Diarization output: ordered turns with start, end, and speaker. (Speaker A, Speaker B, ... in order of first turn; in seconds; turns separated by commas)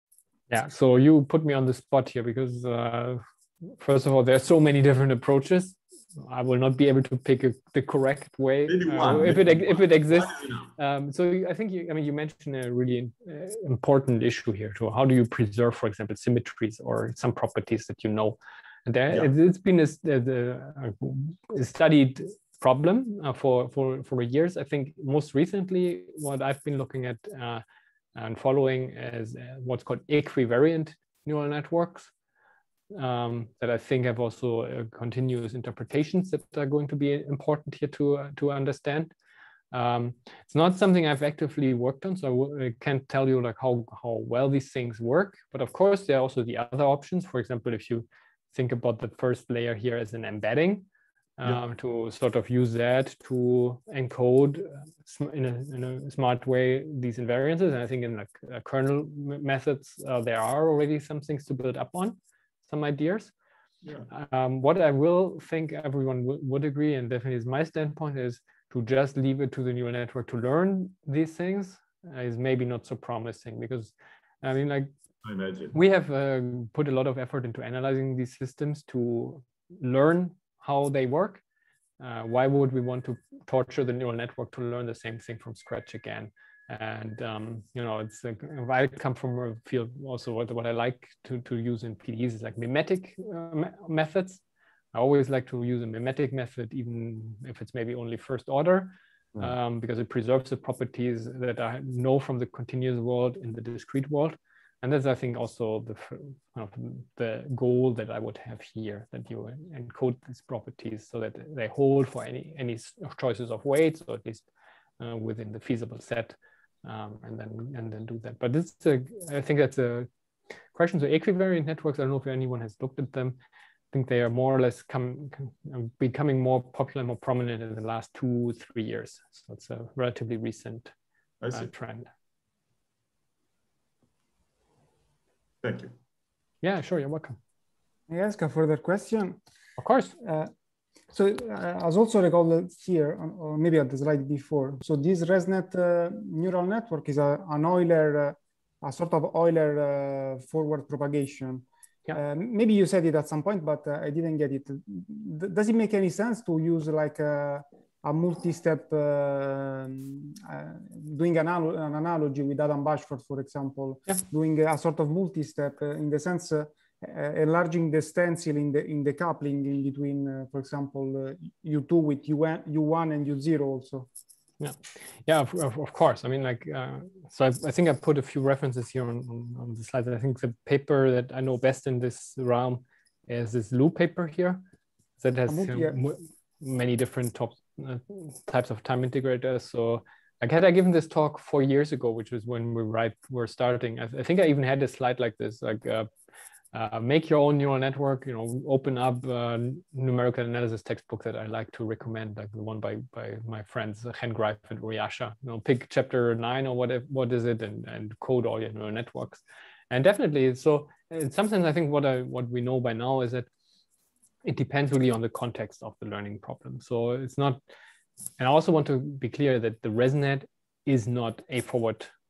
Speaker A: 0.5-27.6, Speaker B: 8.7-10.7, Speaker A: 28.1-32.1, Speaker A: 32.9-39.1, Speaker A: 39.7-50.9, Speaker A: 51.4-63.3, Speaker A: 64.1-74.9, Speaker B: 75.2-75.8, Speaker A: 75.7-81.4, Speaker A: 82.0-94.4, Speaker A: 94.9-114.5, Speaker A: 115.0-120.1, Speaker A: 120.7-123.4, Speaker A: 123.9-130.9, Speaker B: 131.4-131.7, Speaker A: 131.5-132.1, Speaker B: 135.6-135.9, Speaker A: 136.6-137.4, Speaker C: 138.1-139.4, Speaker A: 139.8-140.1, Speaker C: 140.2-140.5, Speaker C: 141.1-174.1, Speaker A: 174.6-184.6, Speaker A: 185.2-196.1, Speaker C: 185.5-185.9, Speaker A: 196.7-213.5, Speaker A: 214.4-217.6, Speaker A: 218.4-222.1